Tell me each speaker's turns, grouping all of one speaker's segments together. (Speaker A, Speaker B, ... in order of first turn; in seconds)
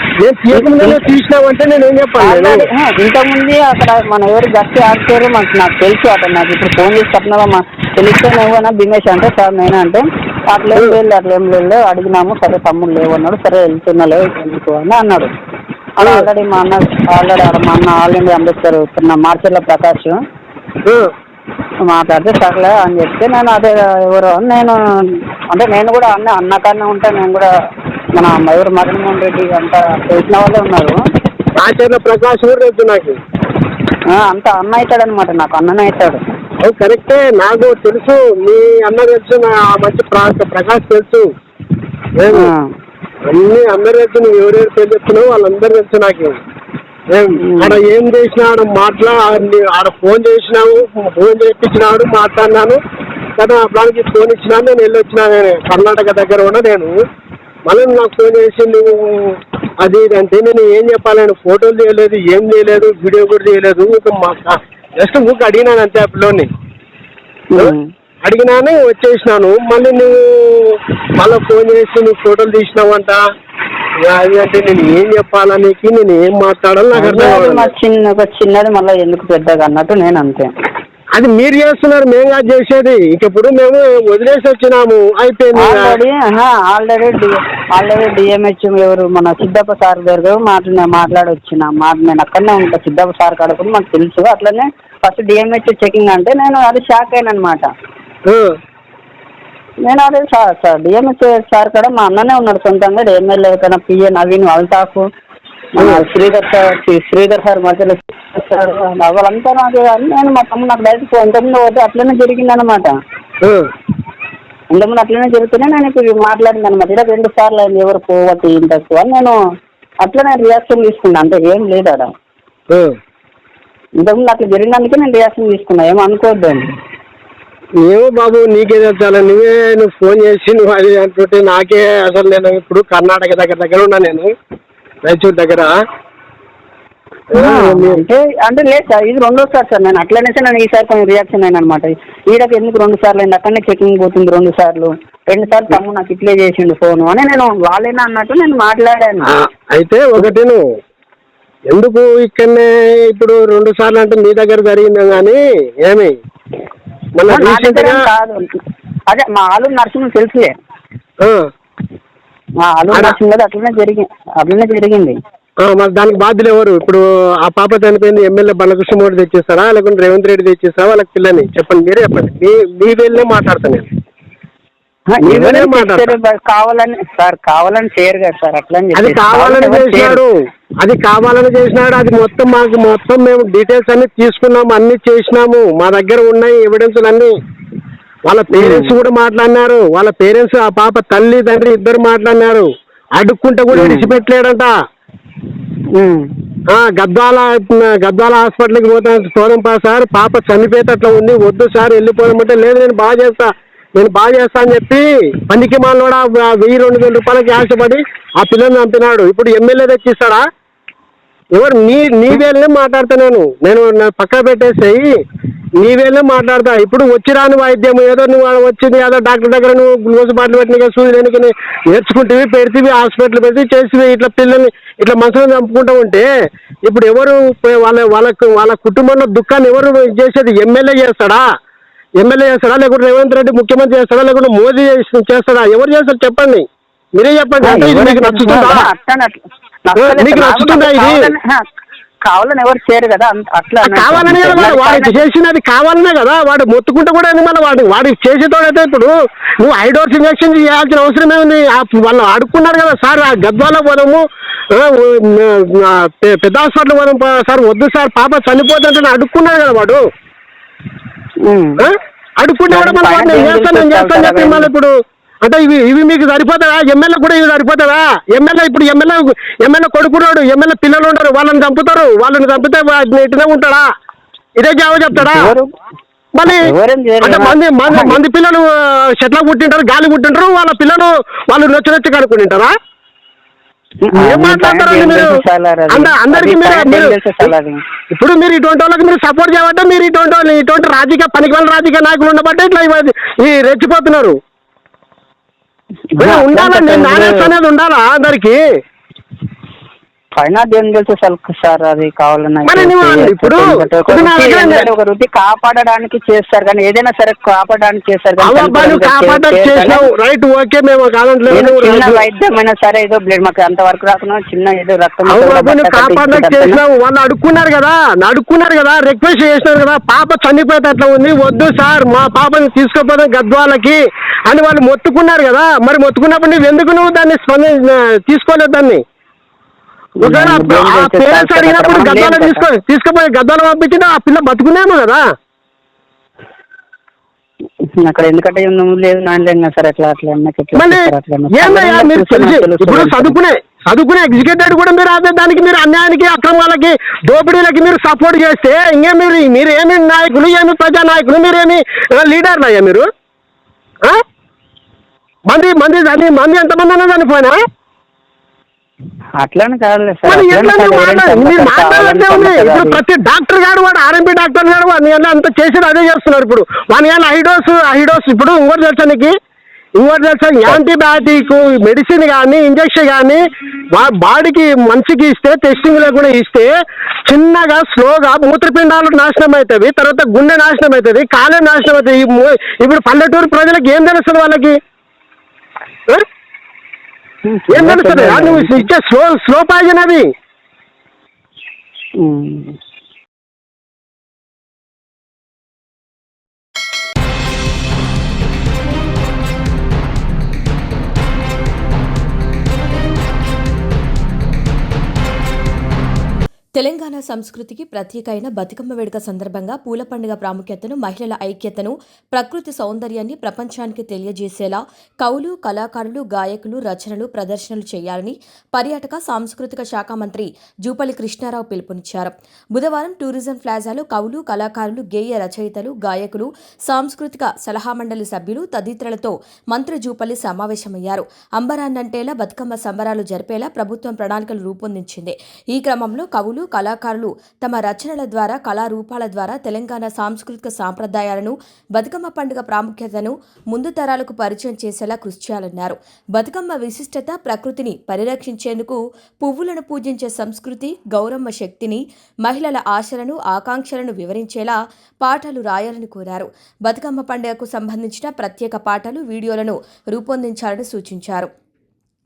Speaker A: 0.2-2.6, 31.6-33.2, 36.6-41.3, 42.2-42.5, 43.3-46.4, 47.1-52.8, 53.4-57.0, 57.6-66.5, 67.6-73.2, 74.0-77.7, 81.2-86.0, 98.3-98.5, 105.8-106.0, 127.8-134.3, 135.0-135.7, 137.3-138.0, 149.3-150.6, 151.7-156.1, 157.2-158.0, 165.6-173.9, 175.2-176.2, 178.9-187.3, 188.2-194.7, 196.7-210.4, 211.5-215.1, 215.8-226.2, 226.8-231.4, 232.2-238.9, 240.0-241.2, 243.8-260.0, 261.8-273.9, 274.6-275.5, 276.3-276.7, 277.2-282.7, 284.1-285.3, 285.9-287.5, 288.1-294.4, 296.2-298.6, 302.6-304.9, 308.4-312.3, 315.3-329.0, 330.2-335.2, 340.8-353.1, 355.5-357.6, 360.3-369.3, 370.0-376.7, 377.2-384.8, 387.7-390.3
Speaker B: 0.5-1.1, 2.2-15.3, 16.0-20.2, 21.8-24.8, 25.5-27.5, 28.1-31.0, 34.1-36.2, 42.3-42.7, 47.4-47.8, 67.5-67.9, 77.0-80.5, 85.6-97.7, 99.8-105.0, 105.7-113.0, 114.7-119.3, 120.0-122.1, 124.0-126.7, 137.3-149.3, 157.3-158.4, 159.1-160.5, 162.6-165.1, 175.1-180.2, 188.5-188.9, 193.8-194.1, 195.9-196.3, 237.6-241.6, 242.2-245.2, 261.4-261.9, 262.7-264.7, 275.1-275.7, 276.5-278.2, 284.0-287.8, 296.1-297.5, 300.4-310.0, 311.5-316.8, 330.2-332.6, 338.0-343.4, 359.4-363.0, 387.4-388.9, 392.2-392.8
Speaker C: 406.7-461.5